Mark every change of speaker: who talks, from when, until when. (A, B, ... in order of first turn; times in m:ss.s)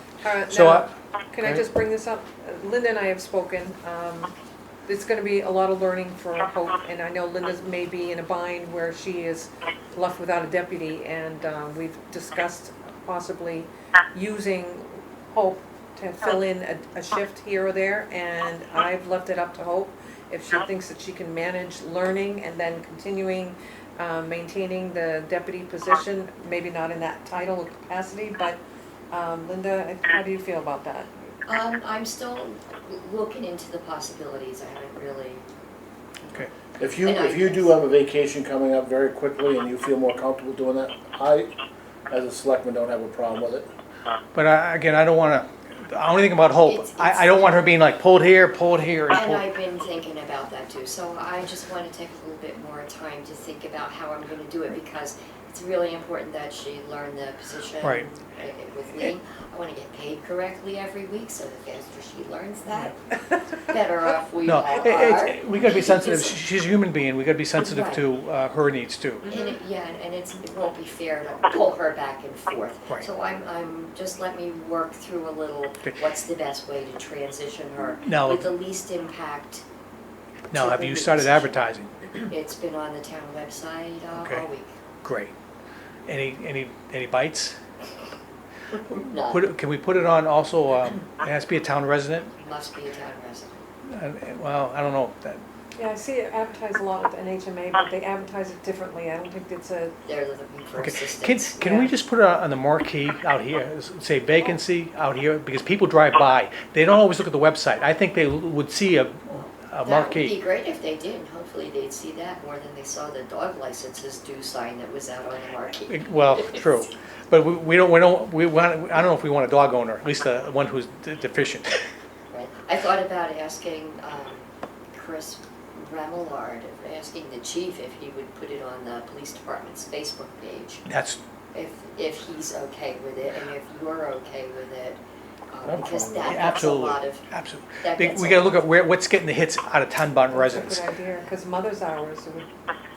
0:00.2-0:04.3 A
0:00.5-0:01.6 B
0:04.8-0:28.6 A
0:29.1-0:31.1 A
0:31.4-0:35.5 C
0:36.2-0:37.7 C
0:36.8-0:41.5 D
0:42.1-0:43.7 D
0:44.3-0:49.5 B
0:46.6-0:47.6 C
0:49.1-1:06.4 C
1:04.4-1:09.3 B
1:07.6-1:08.0 C
1:09.3-1:19.6 C
1:18.0-1:18.5 B
1:20.5-1:21.9 B
1:20.5-1:21.5 C
1:22.2-1:24.8 C
1:24.2-1:24.4 B
1:25.0-1:25.3 B
1:26.1-1:27.6 B
1:28.9-1:29.4 C
1:29.2-1:32.3 B
1:32.4-1:33.6 C
1:33.9-1:35.4 B
1:35.7-1:40.0 A
1:40.0-1:41.9 C
1:40.8-1:50.4 B
1:49.3-1:56.8 C
1:55.9-2:01.8 B
2:02.3-2:10.8 C
2:10.9-2:11.2 B
2:11.5-2:15.0 C
2:15.5-2:17.2 C
2:15.6-2:16.3 D
2:16.2-2:20.8 B
2:17.8-2:18.6 C
2:20.3-2:22.5 A